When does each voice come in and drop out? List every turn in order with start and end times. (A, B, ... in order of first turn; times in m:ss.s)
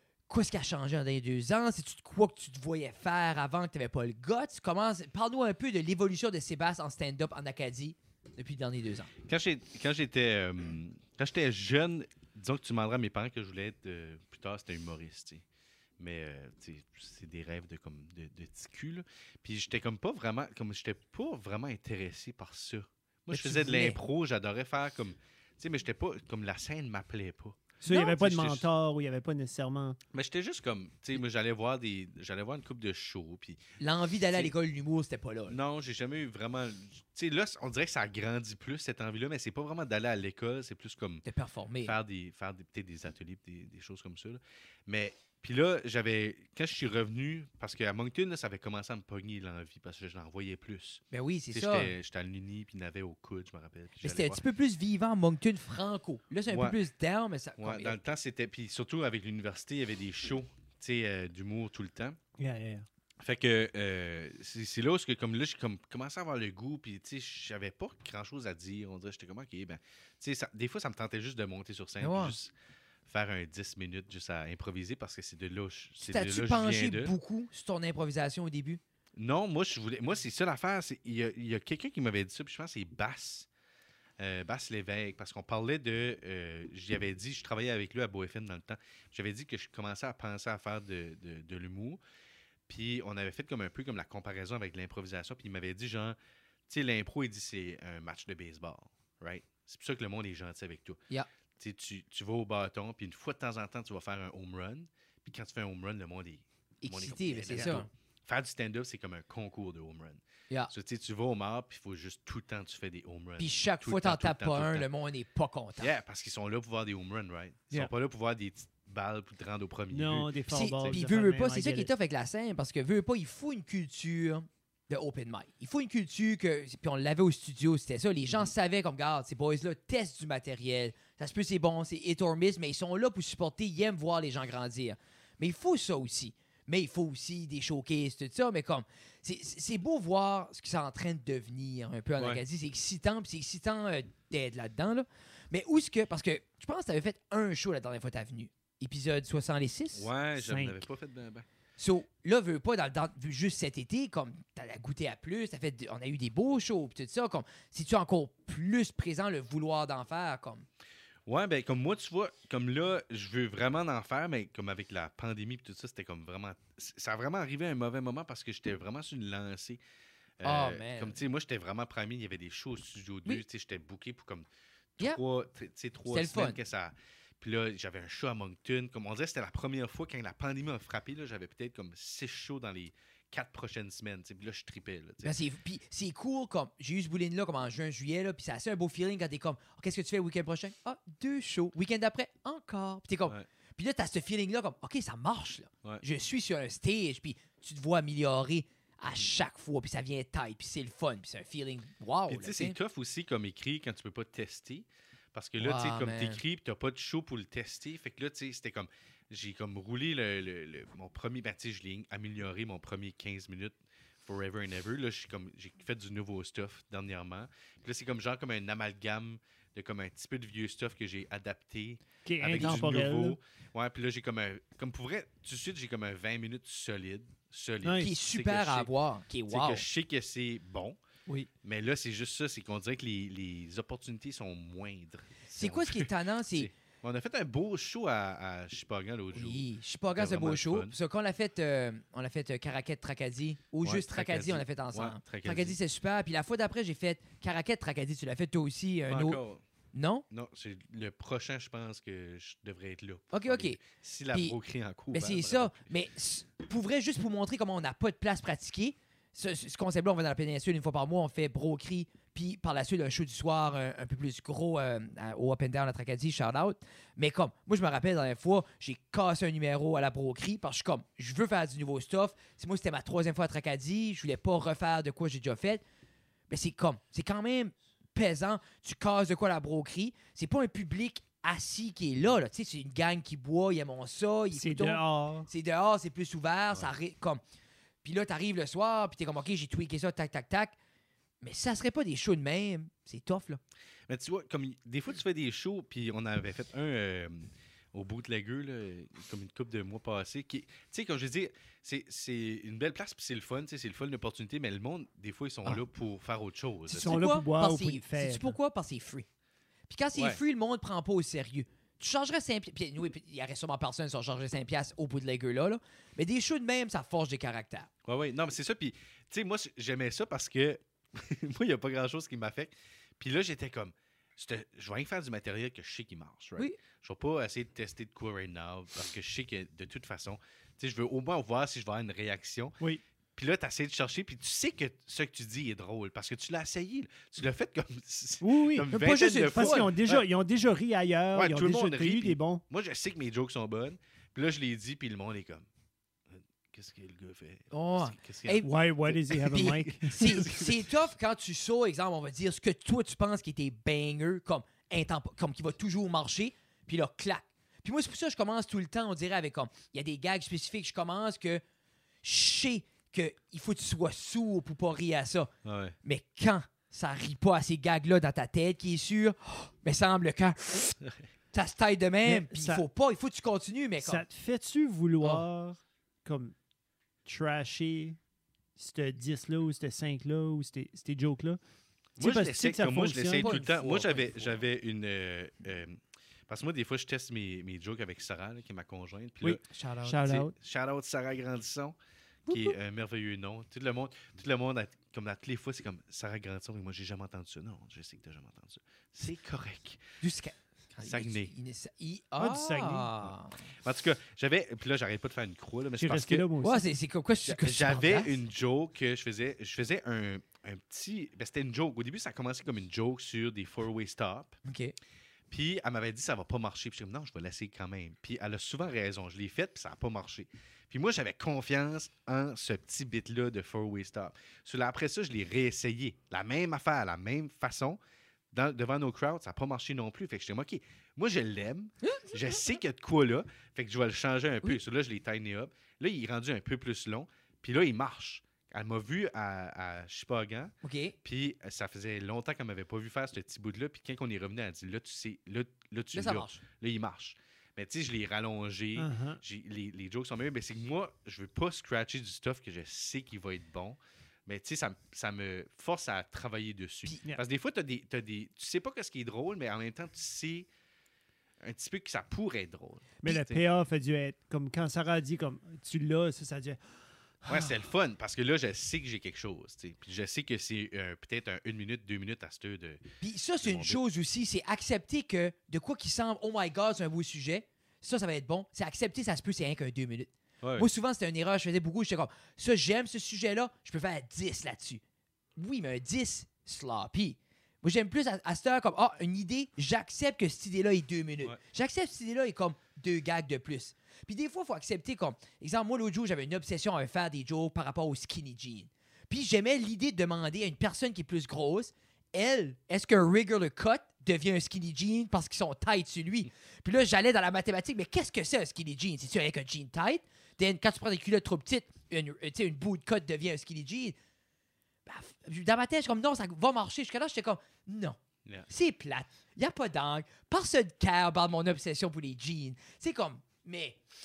0:00.3-0:09.1 A
0:09.2-0:15.4 B
0:16.0-0:28.6 B
0:23.3-0:24.0 A
0:27.8-0:30.0 C
0:30.1-0:33.6 B
0:33.8-0:35.6 A
0:35.5-0:41.2 B
0:41.2-0:41.9 A
0:41.8-0:54.4 B
0:51.1-0:51.9 A
0:54.0-0:58.0 A
0:56.5-0:56.8 B
0:57.6-1:02.2 B
1:02.4-1:02.8 C
1:03.2-1:12.5 B
1:12.0-1:12.4 A
1:13.0-1:17.1 B
1:16.0-1:18.8 A
1:19.2-1:23.5 B
1:24.2-1:32.0 B
1:32.7-1:36.2 B
1:36.7-1:41.0 B
1:41.6-1:54.9 B
1:46.8-1:47.9 A
1:53.4-1:55.9 A
1:55.8-2:01.0 B
1:59.9-2:01.9 C
2:00.5-2:30.1 A
2:29.9-2:31.4 B
2:30.4-2:30.8 C
2:31.8-2:40.6 A
2:41.3-2:49.8 B
2:50.4-3:05.3 B
2:50.4-2:51.2 A
2:56.1-2:56.6 A
3:05.2-3:22.8 A
3:22.3-3:48.9 B
3:25.6-3:26.4 A
3:42.2-3:43.4 C
3:42.5-3:43.0 A
3:47.8-3:48.1 C
3:48.0-3:49.8 A
3:49.5-3:51.0 B
3:51.6-4:00.9 B
3:55.5-3:56.7 A
3:59.3-4:09.4 A
4:03.8-4:05.8 B
4:09.1-4:09.6 B
4:09.9-4:10.2 A
4:10.3-4:15.9 B
4:13.3-4:13.8 A
4:15.1-4:35.8 A
4:36.5-4:47.4 A
4:44.5-4:45.5 C
4:48.0-4:50.8 A
4:51.4-4:53.6 A
4:54.1-5:07.3 B
5:06.9-5:09.2 A
5:06.9-5:08.6 C
5:09.9-5:17.9 A
5:10.1-5:10.4 B
5:18.0-5:32.8 B
5:33.4-5:40.2 B
5:38.4-5:42.6 C
5:38.9-5:39.9 A
5:41.3-5:45.6 B
5:46.3-5:50.9 B
5:47.7-5:48.7 A
5:48.6-5:50.4 C
5:49.3-6:01.6 A
6:02.2-6:05.5 A
6:05.6-6:06.0 B
6:06.0-6:11.0 A
6:11.5-6:14.2 A
6:12.2-6:12.8 C
6:14.0-6:16.5 C
6:17.2-6:18.2 C
6:18.8-6:21.6 C
6:22.2-6:23.7 C
6:22.2-6:29.6 B
6:23.4-6:24.5 A
6:29.4-6:30.5 C
6:29.7-6:30.2 A
6:30.2-6:32.0 B
6:32.5-6:40.0 B
6:32.5-6:32.7 A
6:40.2-6:43.6 A
6:41.0-6:41.5 B
6:42.4-6:43.1 C
6:43.8-6:46.5 B
6:46.0-6:46.8 C
6:46.6-6:48.4 A
6:47.4-6:54.6 B
6:54.6-6:54.9 A
6:55.5-7:08.0 B
7:08.5-7:40.7 B
7:20.8-7:21.1 A
7:26.1-7:26.6 A
7:29.0-7:29.4 C
7:41.6-7:43.6 B
7:43.2-7:46.8 C
7:47.4-7:47.7 C
7:47.4-7:53.0 B
7:53.2-8:05.0 A
7:53.6-7:54.0 B
8:00.6-8:00.9 B
8:05.6-8:34.2 A
8:35.0-8:44.0 A